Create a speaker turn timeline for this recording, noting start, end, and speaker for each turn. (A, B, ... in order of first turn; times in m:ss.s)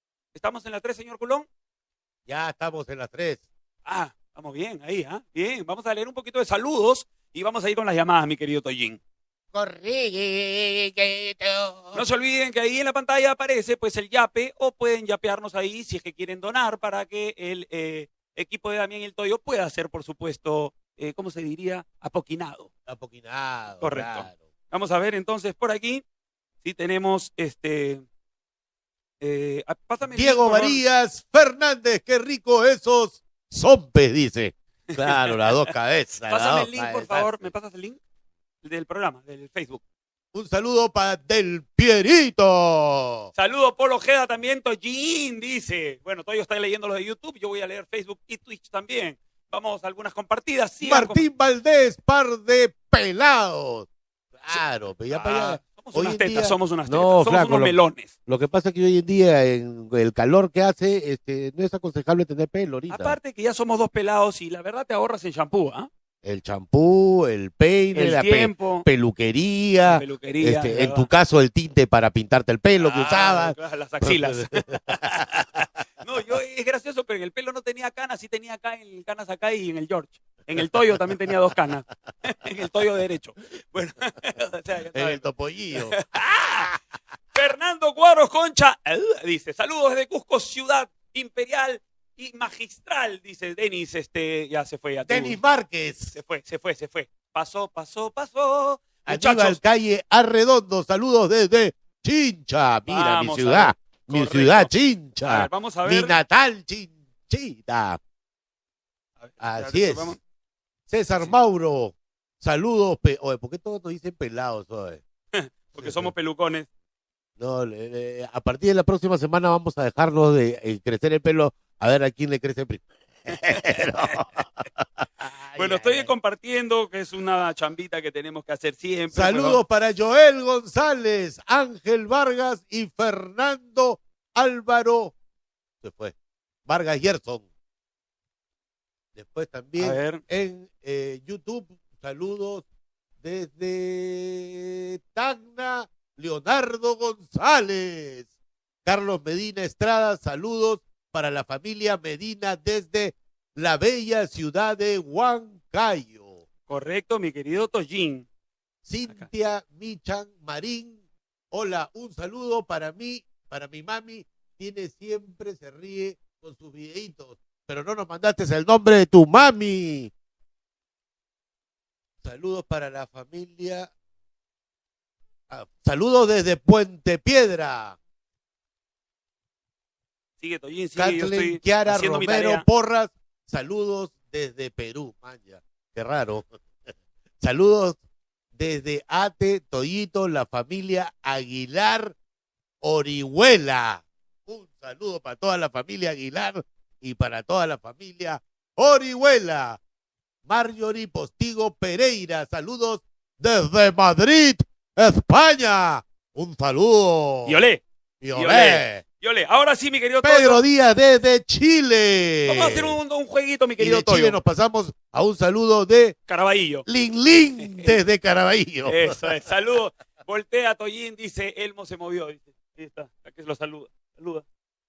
0:00.3-0:01.5 A
0:02.3-0:03.4 B
0:03.8-0:09.0 A
0:09.5-0:12.0 B
0:11.9-0:22.7 A
0:22.9-0:24.4 B
0:23.8-0:26.0 A
0:26.6-0:28.0 A
0:29.2-0:30.8 A
0:30.0-0:37.5 B
0:34.9-0:35.7 A
0:36.2-0:38.0 A
0:38.6-0:39.8 A
0:40.3-0:43.3 B
0:43.3-0:51.2 A
0:50.8-0:53.9 B
0:54.4-1:03.2 B
0:54.5-0:58.1 A
1:02.9-1:05.9 A
1:06.2-1:15.4 B
1:07.9-1:08.8 A
1:09.8-1:11.1 A
1:12.8-1:26.8 A
1:24.9-1:26.0 B
1:27.3-1:35.4 A
1:35.0-1:36.2 B
1:36.1-1:39.6 A
1:39.1-1:48.0 B
1:42.9-1:44.7 A
1:45.2-1:46.1 A
1:49.2-1:50.2 A
1:49.4-1:50.2 B
1:50.9-1:55.0 B
1:55.3-1:56.7 A
1:55.7-1:56.1 B
1:57.4-2:04.4 B
2:03.5-2:04.2 A
2:05.2-2:06.1 B
2:05.6-2:09.6 A
2:09.1-2:15.1 B
2:15.8-2:16.1 B
2:16.6-2:17.4 B
2:19.1-2:22.6 B
2:19.8-2:20.2 A
2:23.2-2:28.3 B
2:28.8-2:36.4 B
2:36.7-2:38.2 A
2:38.8-2:41.0 B
2:41.5-2:50.1 B
2:52.2-2:53.9 B
2:55.5-2:58.0 B
3:00.4-3:02.6 A
3:01.0-3:06.4 B
3:07.4-3:08.0 B
3:08.5-3:12.1 B
3:12.8-3:19.8 B
3:20.5-3:27.6 B
3:27.4-3:27.8 A
3:28.2-3:29.0 B
3:28.3-3:30.6 A
3:30.2-3:33.0 B
3:32.5-3:34.4 A
3:33.8-3:36.2 B
3:36.3-3:36.8 A
3:36.8-3:39.3 B
3:37.6-3:38.0 A
3:38.8-3:44.4 A